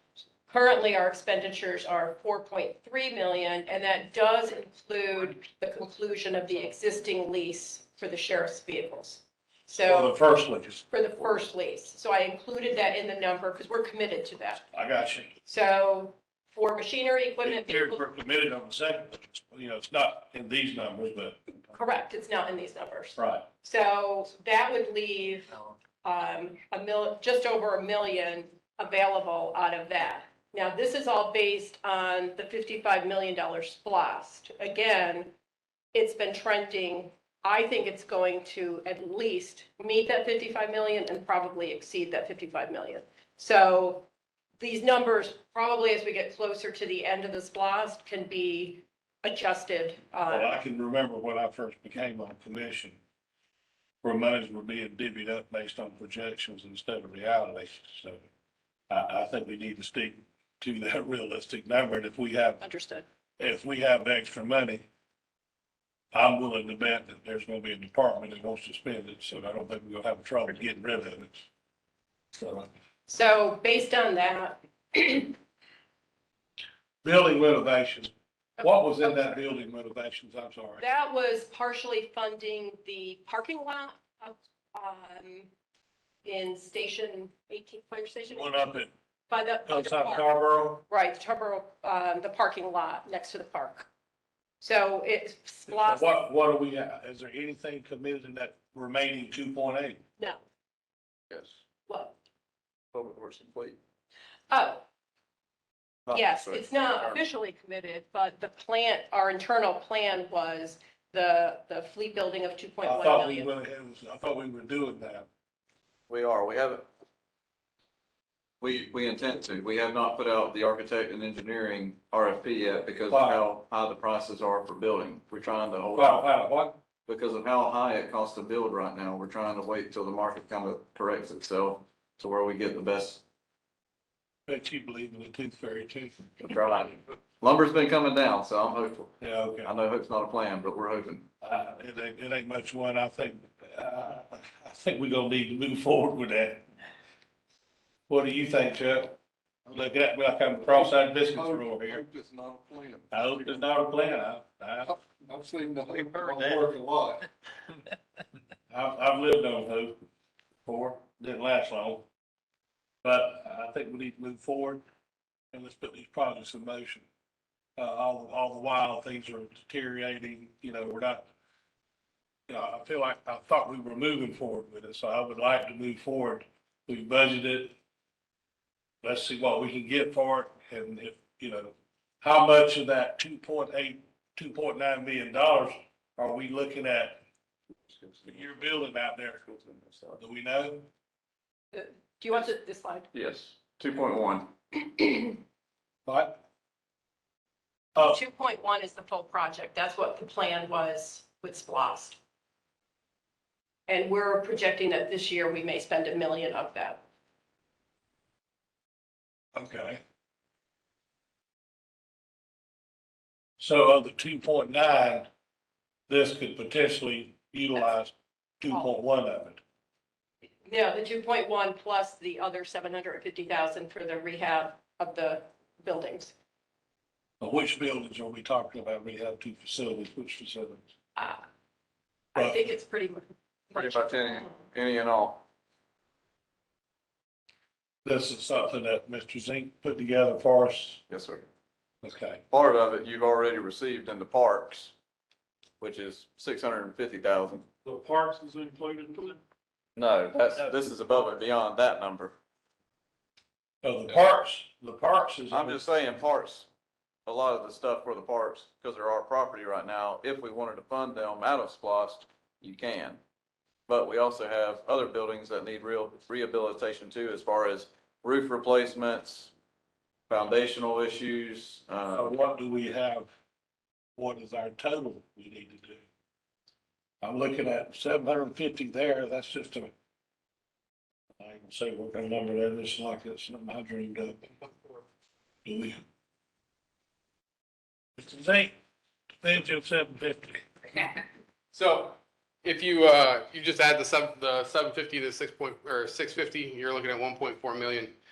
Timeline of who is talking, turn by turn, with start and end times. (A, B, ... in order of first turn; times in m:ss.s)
0:00.5-0:10.2 A
0:09.8-0:10.8 B
0:10.9-0:14.6 A
0:14.7-0:15.3 B
0:15.4-0:18.0 A
0:17.4-0:21.4 B
0:21.7-0:35.3 A
0:23.2-0:23.4 B
0:35.9-0:44.1 A
0:44.6-0:50.6 A
0:50.3-0:53.0 B
0:54.0-0:58.3 B
0:58.9-1:02.6 B
1:02.6-1:03.0 A
1:03.4-1:04.8 B
1:06.1-1:11.5 B
1:12.3-1:12.7 B
1:13.1-1:15.4 A
1:17.0-1:20.8 B
1:18.6-1:19.4 A
1:20.8-1:25.5 A
1:26.2-1:28.6 A
1:28.3-1:28.9 B
1:29.3-1:30.3 A
1:29.6-1:30.8 B
1:30.9-1:33.9 A
1:34.6-1:36.1 A
1:35.7-1:40.0 B
1:41.3-1:41.6 C
1:41.9-1:42.1 A
1:42.9-1:43.8 C
1:44.5-1:44.8 A
1:46.0-1:47.2 C
1:46.1-1:53.5 A
1:52.8-1:55.3 B
1:56.1-1:56.8 C
1:58.6-2:06.2 C
2:03.1-2:03.4 B
2:05.9-2:06.8 B
2:07.0-2:13.2 C
2:14.5-2:16.3 B
2:16.4-2:19.1 C
2:19.2-2:19.7 B
2:19.6-2:21.3 C
2:21.4-2:26.6 B
2:28.1-2:32.0 B
2:30.7-2:33.6 D
2:33.1-2:35.0 B
2:35.1-2:37.2 D
2:35.9-2:36.8 B
2:38.7-2:40.0 B
2:40.6-2:42.0 B
2:43.0-2:44.8 B
2:45.5-2:47.0 B
2:47.8-2:51.2 B
2:52.5-2:57.8 B
2:59.0-3:07.2 B
3:08.2-3:09.4 B
3:09.5-3:10.2 C
3:10.2-3:10.9 B
3:11.7-3:13.1 A
3:13.1-3:15.2 C
3:16.0-3:16.4 B
3:17.9-3:18.2 B
3:18.1-3:22.2 A
3:23.9-3:27.0 A
3:29.5-3:30.0 B
3:33.6-3:35.3 B
3:36.1-3:39.6 B
3:40.6-3:46.3 A
3:47.4-3:50.9 B
3:51.2-3:51.4 A
3:52.3-3:52.7 B
3:52.3-3:54.0 A
3:53.7-3:55.4 C
3:58.0-4:01.0 B
4:01.1-4:01.4 C
4:02.0-4:02.4 B
4:02.5-4:04.9 C
4:05.8-4:07.6 C
4:07.8-4:09.4 B
4:10.0-4:12.3 C
4:13.8-4:15.8 B
4:15.5-4:16.7 C
4:17.2-4:23.2 C
4:23.9-4:29.5 C
4:30.3-4:32.3 C
4:32.1-4:33.3 B
4:34.2-4:36.0 B
4:37.2-4:39.9 B
4:41.4-4:44.4 B
4:45.6-4:46.0 B
4:48.2-4:48.7 B
4:49.4-4:50.7 B
4:51.7-4:58.2 E